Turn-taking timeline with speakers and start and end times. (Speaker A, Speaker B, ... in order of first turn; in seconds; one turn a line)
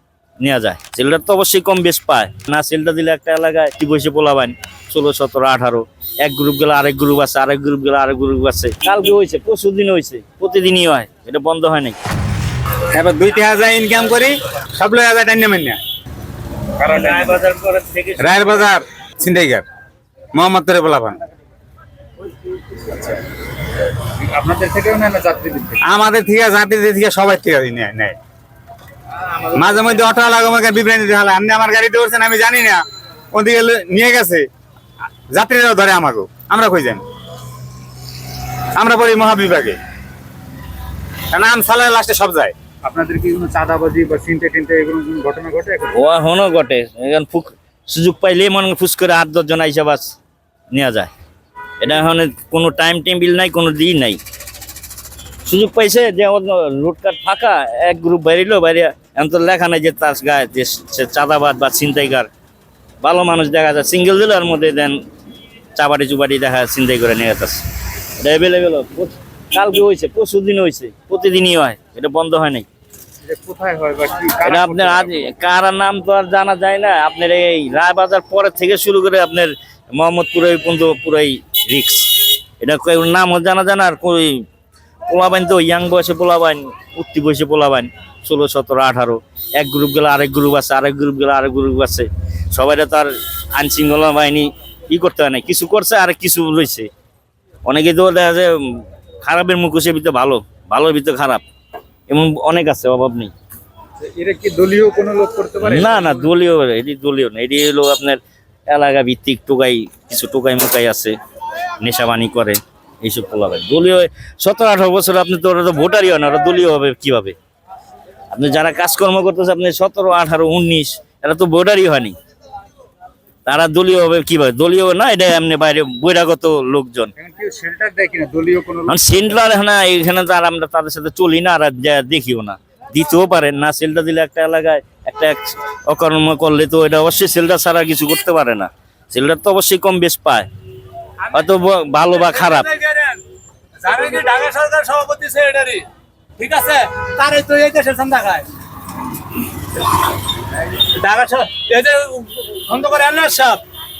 Speaker A: 0.4-11.9
Speaker B: 12.9-15.8
Speaker C: 16.8-17.4
Speaker A: 16.8-18.6
Speaker B: 18.2-19.6
Speaker B: 20.3-21.2
Speaker C: 22.8-23.2
Speaker C: 24.3-25.8
Speaker B: 25.9-28.1
Speaker B: 29.5-32.8
Speaker B: 33.3-34.4
Speaker B: 35.3-37.0
Speaker B: 38.8-39.8
Speaker B: 41.3-42.5
Speaker C: 42.8-46.0
Speaker A: 45.9-50.1
Speaker A: 50.7-51.1
Speaker A: 51.8-54.2
Speaker A: 55.5-62.3
Speaker A: 63.0-65.0
Speaker A: 65.7-67.6
Speaker A: 68.2-72.7
Speaker C: 73.2-75.2
Speaker A: 74.4-84.4
Speaker A: 85.1-96.9
Speaker A: 97.6-101.4
Speaker A: 102.1-103.3
Speaker C: 104.0-106.3
Speaker A: 105.6-111.1
Speaker A: 111.8-117.3
Speaker A: 118.3-122.2
Speaker A: 123.5-127.1
Speaker C: 127.2-129.0
Speaker A: 128.8-140.5
Speaker A: 141.3-142.7
Speaker D: 142.1-143.2
Speaker D: 143.8-145.8
Speaker D: 146.4-148.5
Speaker D: 150.8-153.6